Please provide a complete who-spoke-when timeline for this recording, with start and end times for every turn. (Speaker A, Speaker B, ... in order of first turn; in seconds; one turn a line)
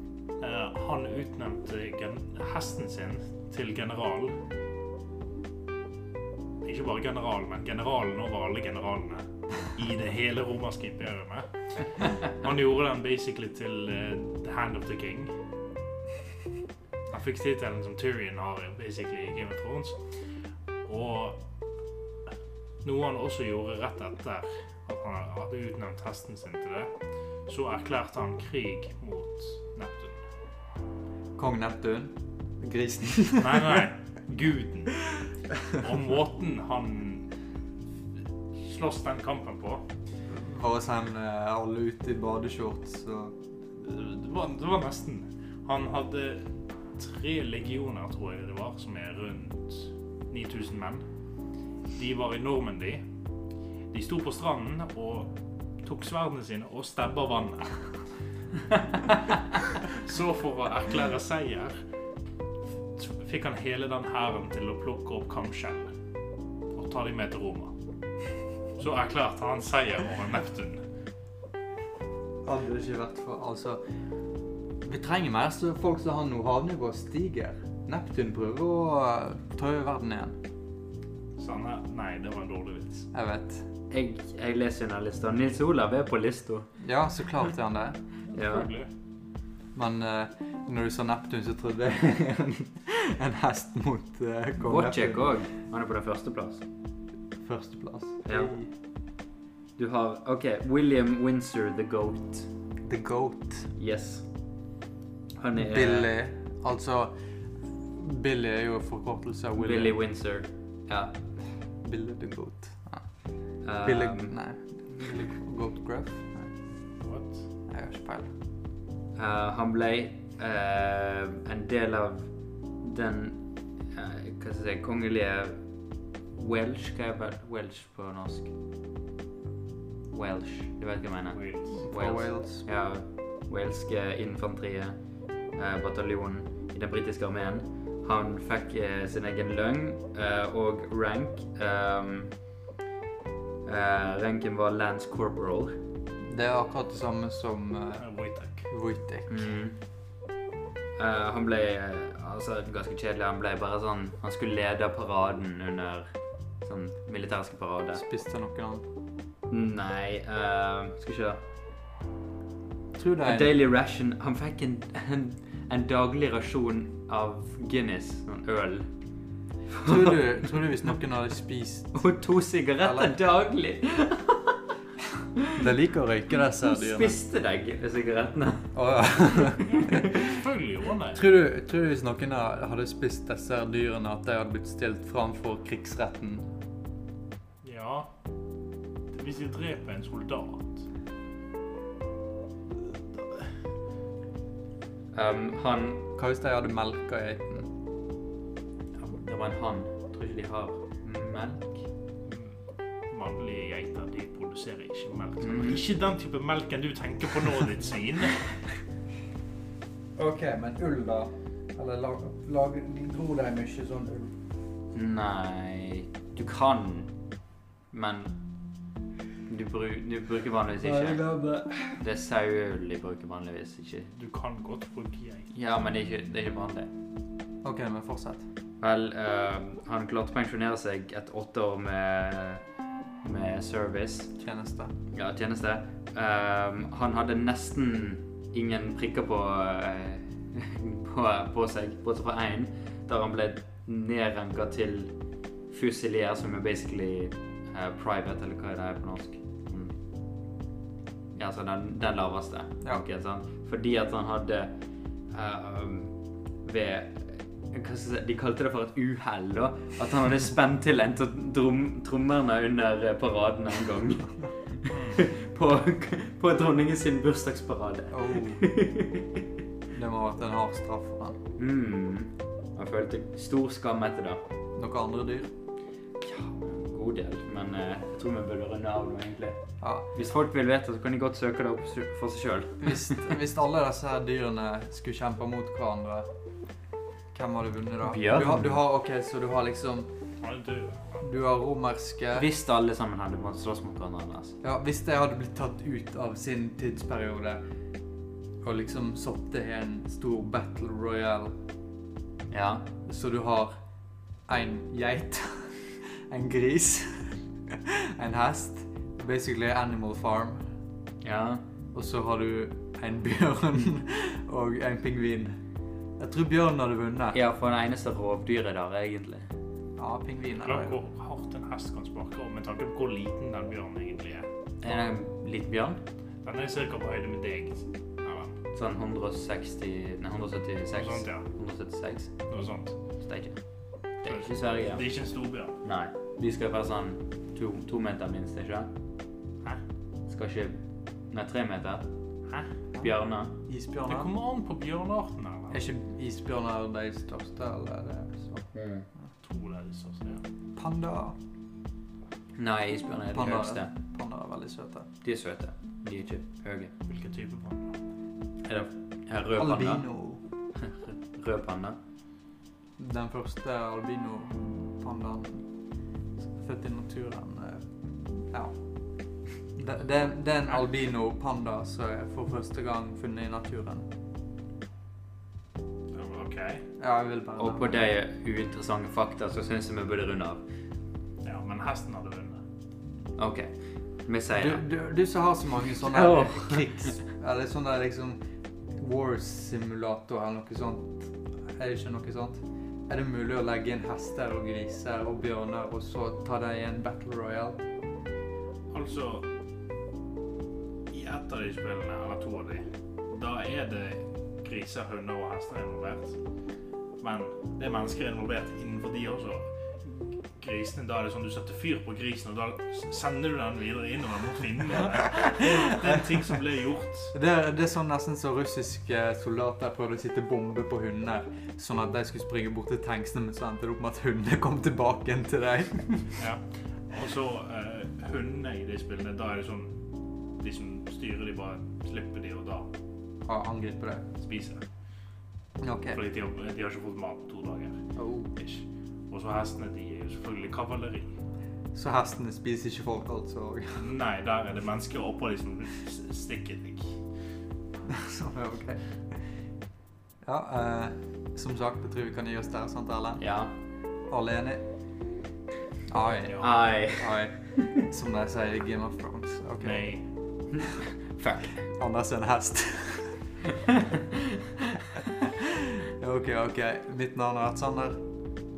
Speaker A: 0.4-4.4
Speaker A: 6.6-15.3
Speaker A: 17.1-20.0
Speaker A: 20.9-21.4
Speaker A: 22.8-26.9
Speaker A: 27.5-30.2
Speaker B: 31.4-33.9
Speaker A: 33.4-35.1
Speaker A: 35.7-37.3
Speaker A: 38.6-39.8
Speaker B: 40.3-43.4
Speaker A: 43.8-51.0
Speaker A: 52.0-53.0
Speaker A: 53.9-58.0
Speaker A: 59.0-61.8
Speaker A: 63.0-65.9
Speaker A: 66.7-67.7
Speaker A: 68.8-70.8
Speaker B: 72.4-73.8
Speaker B: 74.8-80.4
Speaker A: 81.4-83.1
Speaker B: 83.1-83.7
Speaker C: 83.9-86.7
Speaker B: 86.8-88.0
Speaker A: 88.3-88.9
Speaker C: 88.3-88.7
Speaker B: 89.8-95.3
Speaker C: 94.6-96.6
Speaker B: 97.4-98.7
Speaker C: 98.3-98.6
Speaker C: 99.8-102.5
Speaker B: 102.8-103.7
Speaker C: 103.8-104.3
Speaker C: 105.4-106.1
Speaker B: 105.6-107.1
Speaker B: 107.9-110.0
Speaker C: 109.6-111.1
Speaker B: 111.8-113.1
Speaker C: 113.6-114.3
Speaker B: 113.8-116.5
Speaker A: 117.0-117.5
Speaker B: 117.7-118.3
Speaker C: 119.2-125.6
Speaker C: 126.4-128.5
Speaker C: 130.1-135.0
Speaker A: 131.3-131.8
Speaker B: 131.8-132.6
Speaker C: 135.5-142.3
Speaker C: 143.7-145.8
Speaker B: 146.2-148.1
Speaker A: 148.0-148.7
Speaker B: 148.7-149.3
Speaker C: 149.3-149.8
Speaker C: 151.0-158.0
Speaker B: 157.9-158.9
Speaker C: 159.5-161.4
Speaker B: 162.9-163.6
Speaker C: 163.2-168.9
Speaker C: 169.7-170.2
Speaker B: 169.8-172.0
Speaker C: 171.9-174.6
Speaker B: 172.8-173.1
Speaker B: 175.5-177.2
Speaker C: 176.6-178.7
Speaker B: 178.7-180.4
Speaker C: 179.6-180.0
Speaker A: 179.6-181.2
Speaker B: 181.1-186.5
Speaker A: 187.6-188.1
Speaker A: 189.1-190.8
Speaker A: 192.8-193.5
Speaker C: 195.1-196.0
Speaker B: 196.2-197.7
Speaker C: 199.0-201.9
Speaker A: 202.3-208.7
Speaker C: 205.4-205.8
Speaker B: 210.2-214.3
Speaker C: 214.9-217.1
Speaker C: 217.9-218.4
Speaker C: 219.5-221.2
Speaker B: 220.8-222.0
Speaker C: 222.0-224.1
Speaker A: 224.2-225.5
Speaker C: 225.5-226.9
Speaker B: 227.6-228.4
Speaker C: 228.8-232.6
Speaker C: 233.2-234.3
Speaker B: 234.4-234.9
Speaker C: 235.1-245.1
Speaker C: 245.7-249.9
Speaker C: 251.4-254.7
Speaker C: 255.3-269.4
Speaker A: 264.9-265.2
Speaker B: 268.1-268.7
Speaker B: 269.9-271.4
Speaker C: 271.6-274.4
Speaker B: 274.8-275.5
Speaker C: 276.2-283.2
Speaker B: 279.8-280.1
Speaker B: 282.8-286.3
Speaker B: 287.3-290.1
Speaker C: 288.0-288.8
Speaker A: 290.4-291.2
Speaker B: 291.2-292.5
Speaker C: 292.3-294.6
Speaker B: 294.6-297.6
Speaker B: 298.6-301.5
Speaker C: 302.5-302.9
Speaker B: 303.1-303.7
Speaker B: 304.5-310.6
Speaker C: 311.2-311.6
Speaker B: 311.9-315.6
Speaker B: 316.2-317.4
Speaker C: 317.3-319.5
Speaker B: 320.0-321.0
Speaker A: 320.6-324.5
Speaker C: 324.8-326.0
Speaker A: 326.4-328.6
Speaker C: 328.7-332.3
Speaker A: 330.9-331.5
Speaker A: 332.5-333.0
Speaker C: 333.2-333.6
Speaker C: 334.2-335.0
Speaker A: 334.2-335.8
Speaker C: 335.8-338.9
Speaker C: 340.3-340.8
Speaker C: 341.3-342.1
Speaker C: 343.0-343.5
Speaker B: 343.6-344.3
Speaker A: 344.1-345.8
Speaker B: 345.7-348.7
Speaker C: 348.7-349.1
Speaker A: 349.4-350.4
Speaker B: 350.8-351.4
Speaker C: 352.6-353.9
Speaker B: 353.3-355.1
Speaker C: 355.2-356.9
Speaker A: 357.1-357.9
Speaker C: 358.7-360.1
Speaker B: 359.6-360.4
Speaker C: 360.8-362.0
Speaker B: 363.0-365.7
Speaker B: 366.5-368.8
Speaker B: 369.7-374.1
Speaker A: 376.1-376.9
Speaker B: 377.0-378.0
Speaker C: 377.6-380.6
Speaker A: 381.4-382.6
Speaker C: 383.4-383.7
Speaker C: 384.2-384.8
Speaker B: 384.5-388.4
Speaker C: 386.0-387.0
Speaker B: 389.0-397.8
Speaker A: 398.9-399.5
Speaker A: 401.1-406.4
Speaker A: 407.2-417.3
Speaker B: 415.2-416.2
Speaker B: 417.3-426.4
Speaker A: 426.4-430.0
Speaker A: 430.6-432.9
Speaker B: 433.4-434.3
Speaker A: 434.4-434.8
Speaker B: 435.8-436.2
Speaker A: 436.1-438.0
Speaker B: 438.2-438.5
Speaker A: 438.6-441.3
Speaker B: 441.9-444.0
Speaker A: 444.0-447.2
Speaker B: 448.1-449.0
Speaker B: 450.4-453.4
Speaker C: 453.4-453.7
Speaker B: 454.3-454.8
Speaker B: 456.1-460.1
Speaker C: 456.6-458.1
Speaker A: 459.8-460.2
Speaker C: 460.8-461.8
Speaker B: 461.9-463.4
Speaker B: 465.2-468.2